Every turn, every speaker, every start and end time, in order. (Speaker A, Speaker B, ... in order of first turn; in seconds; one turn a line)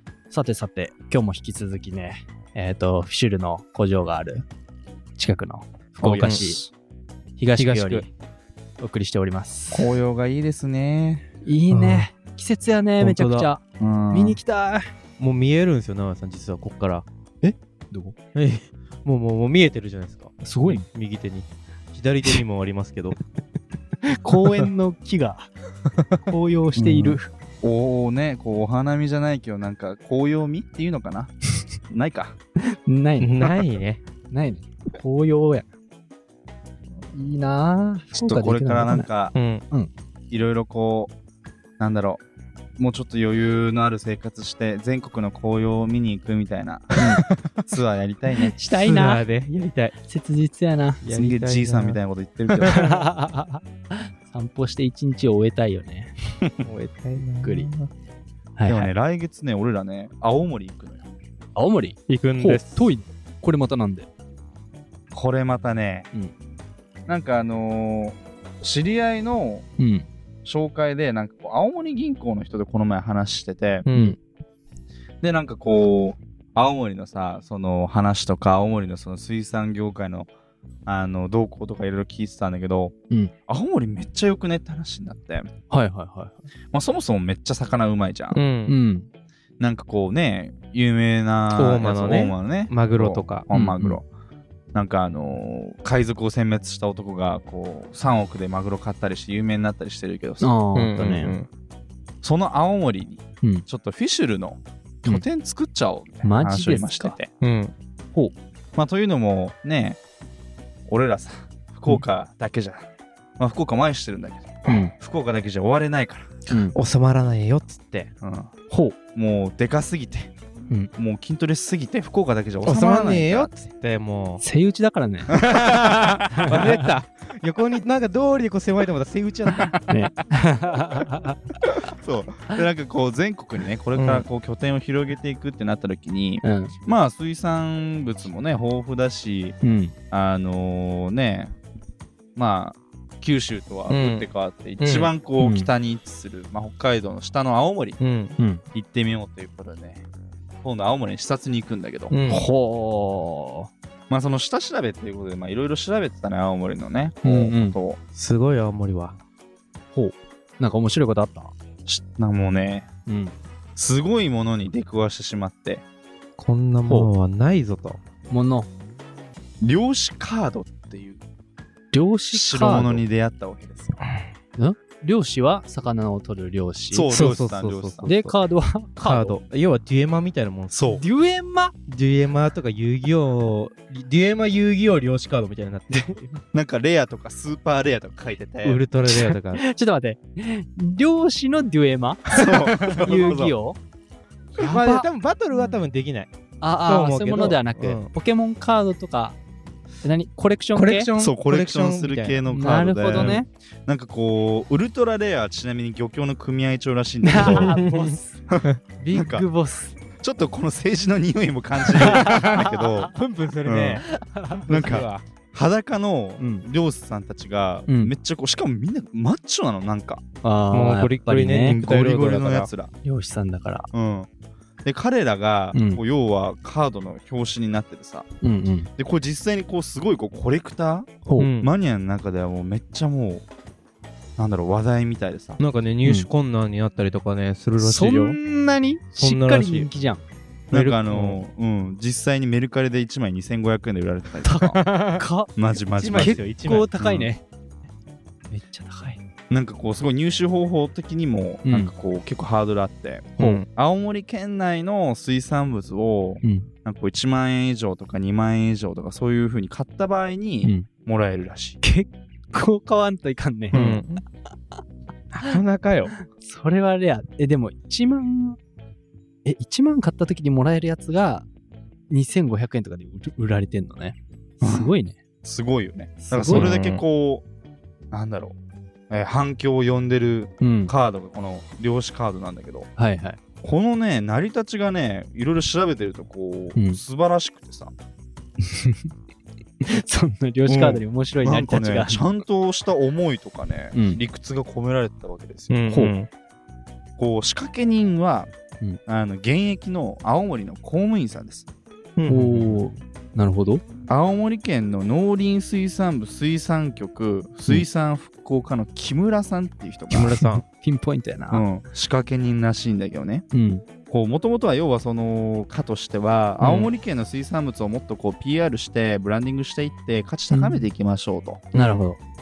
Speaker A: 0.3-4.5
Speaker A: 5.2-6.6
Speaker B: 6.0-6.7
Speaker C: 6.2-6.5
Speaker A: 7.4-8.1
Speaker C: 7.5-8.1
Speaker A: 8.8-9.9
Speaker B: 9.7-11.3
Speaker A: 11.4-14.8
Speaker C: 11.7-12.1
Speaker C: 13.0-13.5
Speaker B: 13.8-14.4
Speaker C: 15.2-17.1
Speaker A: 17.4-18.1
Speaker C: 18.3-23.2
Speaker A: 20.4-20.8
Speaker A: 24.1-25.5
Speaker C: 24.4-24.7
Speaker A: 26.2-27.3
Speaker C: 26.8-27.2
Speaker B: 27.6-31.3
Speaker B: 31.9-32.4
Speaker A: 32.7-33.5
Speaker C: 33.2-34.0
Speaker A: 34.3-35.7
Speaker A: 37.1-39.1
Speaker B: 38.1-39.4
Speaker C: 39.3-39.6
Speaker B: 40.3-41.1
Speaker B: 41.8-42.2
Speaker B: 42.8-47.0
Speaker C: 47.0-47.2
Speaker B: 47.7-48.5
Speaker A: 48.5-49.2
Speaker C: 48.7-50.0
Speaker A: 50.0-51.1
Speaker C: 51.0-52.0
Speaker B: 51.1-53.0
Speaker C: 52.6-53.0
Speaker A: 52.7-56.1
Speaker C: 56.6-57.9
Speaker A: 57.4-57.7
Speaker A: 58.6-58.9
Speaker B: 58.7-61.1
Speaker A: 61.5-64.1
Speaker C: 62.1-62.9
Speaker B: 65.1-66.1
Speaker B: 67.1-69.7
Speaker A: 69.8-70.1
Speaker B: 70.5-73.8
Speaker C: 73.8-74.2
Speaker A: 73.9-74.2
Speaker B: 75.2-80.3
Speaker B: 80.9-82.9
Speaker B: 83.5-85.5
Speaker A: 85.7-86.4
Speaker B: 86.7-88.4
Speaker C: 88.3-88.8
Speaker A: 88.7-89.1
Speaker B: 89.6-94.0
Speaker C: 91.5-93.5
Speaker A: 93.5-94.0
Speaker B: 94.7-100.5
Speaker A: 100.4-101.4
Speaker C: 100.7-101.5
Speaker B: 102.2-107.3
Speaker A: 106.2-107.2
Speaker C: 107.4-107.7
Speaker B: 108.8-110.0
Speaker B: 110.9-116.4
Speaker A: 114.7-114.9
Speaker C: 116.5-118.1
Speaker A: 116.5-116.7
Speaker B: 118.2-118.5
Speaker A: 118.7-119.0
Speaker B: 119.1-120.3
Speaker B: 121.0-123.5
Speaker C: 122.6-124.4
Speaker A: 124.4-125.4
Speaker B: 125.3-126.6
Speaker C: 125.3-129.8
Speaker A: 126.4-126.7
Speaker A: 129.9-131.4
Speaker B: 131.7-139.6
Speaker C: 133.9-134.3
Speaker A: 136.4-136.7
Speaker A: 139.6-139.9
Speaker B: 140.1-141.6
Speaker B: 142.4-148.0
Speaker C: 143.9-144.3
Speaker C: 144.8-145.1
Speaker A: 145.4-145.7
Speaker C: 148.0-148.4
Speaker A: 148.4-148.6
Speaker B: 148.7-150.1
Speaker B: 150.6-152.4
Speaker C: 152.1-152.4
Speaker A: 152.3-153.7
Speaker B: 154.1-158.0
Speaker A: 157.2-157.8
Speaker C: 158.1-159.2
Speaker A: 159.9-161.5
Speaker B: 161.9-162.9
Speaker A: 163.1-163.3
Speaker B: 163.8-165.8
Speaker C: 166.4-168.0
Speaker A: 168.3-168.7
Speaker B: 169.6-171.2
Speaker A: 171.9-173.1
Speaker B: 172.3-174.0
Speaker A: 174.6-177.2
Speaker B: 176.9-178.1
Speaker C: 177.1-178.3
Speaker A: 178.1-179.4
Speaker C: 179.0-180.9
Speaker B: 180.7-181.0
Speaker A: 180.9-181.8
Speaker C: 181.9-186.4
Speaker B: 186.5-188.8
Speaker C: 188.6-189.6
Speaker A: 189.1-193.8
Speaker B: 192.3-193.6
Speaker C: 192.4-193.1
Speaker C: 194.6-196.3
Speaker A: 194.6-195.1
Speaker A: 196.6-199.4
Speaker C: 196.8-198.1
Speaker A: 200.0-201.1
Speaker C: 200.8-203.4
Speaker B: 201.2-207.8
Speaker A: 202.5-203.5
Speaker A: 207.2-208.4
Speaker C: 207.4-208.1
Speaker B: 208.5-209.5
Speaker A: 209.0-210.0
Speaker B: 210.2-213.1
Speaker A: 211.9-213.1
Speaker C: 212.1-215.2
Speaker B: 213.6-214.0
Speaker A: 214.2-214.9
Speaker B: 214.7-220.2
Speaker A: 216.4-216.6
Speaker A: 217.9-218.1
Speaker A: 220.4-221.8
Speaker C: 220.7-222.7
Speaker B: 221.6-222.9
Speaker A: 223.0-223.9
Speaker B: 223.9-224.3
Speaker B: 224.8-228.2
Speaker A: 225.7-226.0
Speaker A: 228.4-228.9
Speaker B: 229.0-233.4
Speaker C: 231.4-231.7
Speaker B: 234.4-235.6
Speaker C: 235.6-238.4
Speaker A: 237.8-240.2
Speaker C: 239.2-239.9
Speaker B: 240.7-244.8
Speaker C: 240.7-241.4
Speaker A: 244.4-245.5
Speaker C: 244.8-245.2
Speaker B: 245.5-246.4
Speaker C: 245.9-246.9
Speaker A: 246.1-247.4
Speaker B: 247.0-247.3
Speaker A: 248.5-249.2
Speaker B: 249.5-261.8
Speaker A: 251.6-251.9
Speaker C: 253.4-253.7
Speaker A: 256.4-256.7
Speaker A: 261.8-263.8
Speaker B: 263.7-264.0
Speaker C: 263.7-264.2
Speaker C: 265.3-266.1
Speaker A: 266.4-268.6
Speaker A: 269.4-271.5
Speaker A: 272.1-275.2
Speaker B: 274.6-274.9
Speaker B: 275.4-277.4
Speaker A: 276.2-276.7
Speaker C: 276.5-277.0
Speaker B: 278.1-278.6
Speaker B: 279.1-282.9
Speaker A: 280.6-280.9
Speaker A: 283.0-283.4
Speaker B: 283.6-287.9
Speaker A: 286.8-287.0
Speaker A: 288.6-289.1
Speaker A: 289.8-292.4
Speaker B: 290.6-296.0
Speaker A: 293.9-294.2
Speaker C: 295.7-296.3
Speaker B: 297.2-298.5
Speaker B: 299.1-301.7
Speaker C: 302.2-302.7
Speaker A: 302.3-303.8
Speaker B: 304.1-310.4
Speaker C: 310.1-310.6
Speaker A: 310.4-311.6
Speaker B: 311.5-313.4
Speaker A: 313.5-313.8
Speaker B: 314.1-321.7
Speaker C: 316.6-316.9
Speaker A: 320.5-320.9
Speaker A: 321.7-322.2